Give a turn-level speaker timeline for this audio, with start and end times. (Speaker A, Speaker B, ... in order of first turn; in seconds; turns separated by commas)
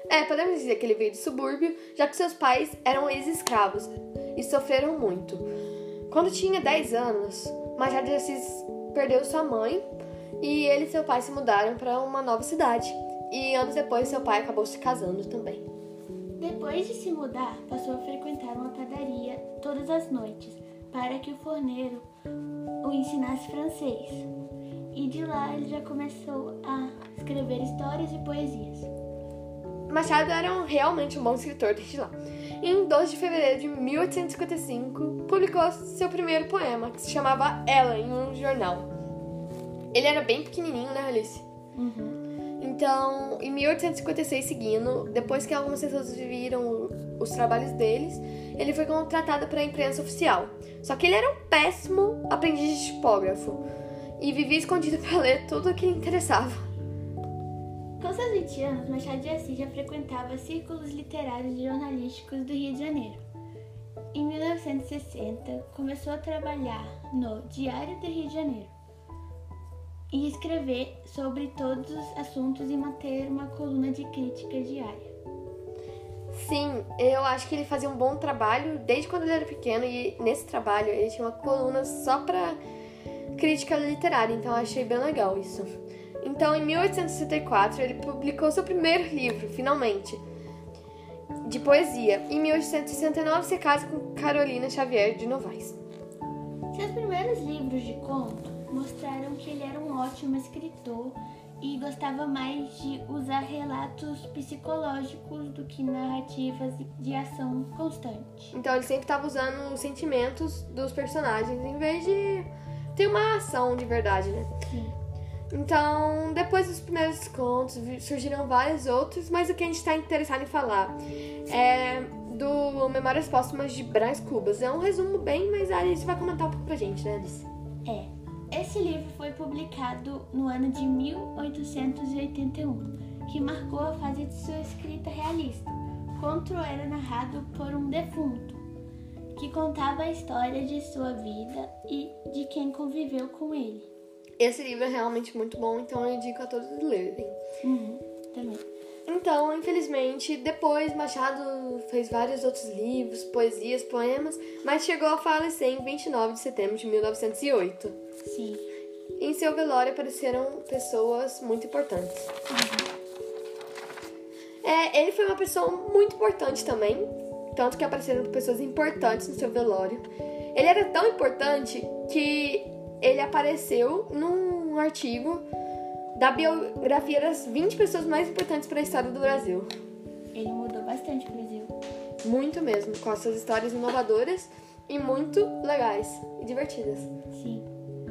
Speaker A: 0.1-5.5, Speaker A: 6.1-9.8, Speaker A: 10.4-15.7, Speaker B: 16.4-22.1, Speaker B: 22.8-24.3, Speaker B: 24.9-28.9, Speaker A: 29.9-38.9, Speaker A: 39.9-41.5, Speaker B: 41.8-42.2, Speaker A: 42.6-53.7, Speaker A: 54.2-56.6, Speaker B: 58.0-63.2, Speaker B: 64.1-68.7, Speaker B: 70.1-75.1, Speaker A: 76.3-82.6, Speaker A: 83.4-85.7, Speaker A: 86.2-90.2, Speaker A: 91.5-95.8, Speaker B: 96.7-108.5, Speaker A: 108.5-114.5, Speaker B: 114.7-114.9, Speaker A: 115.5-127.5, Speaker B: 127.8-138.6, Speaker B: 139.3-143.9, Speaker A: 144.4-147.4, Speaker B: 147.6-148.7, Speaker A: 149.1-158.0, Speaker B: 158.2-158.7, Speaker A: 159.2-162.3, Speaker B: 162.5-162.9, Speaker A: 164.6-175.5, Speaker A: 176.2-179.7, Speaker B: 180.3-181.8, Speaker A: 182.2-187.1, Speaker B: 187.3-187.7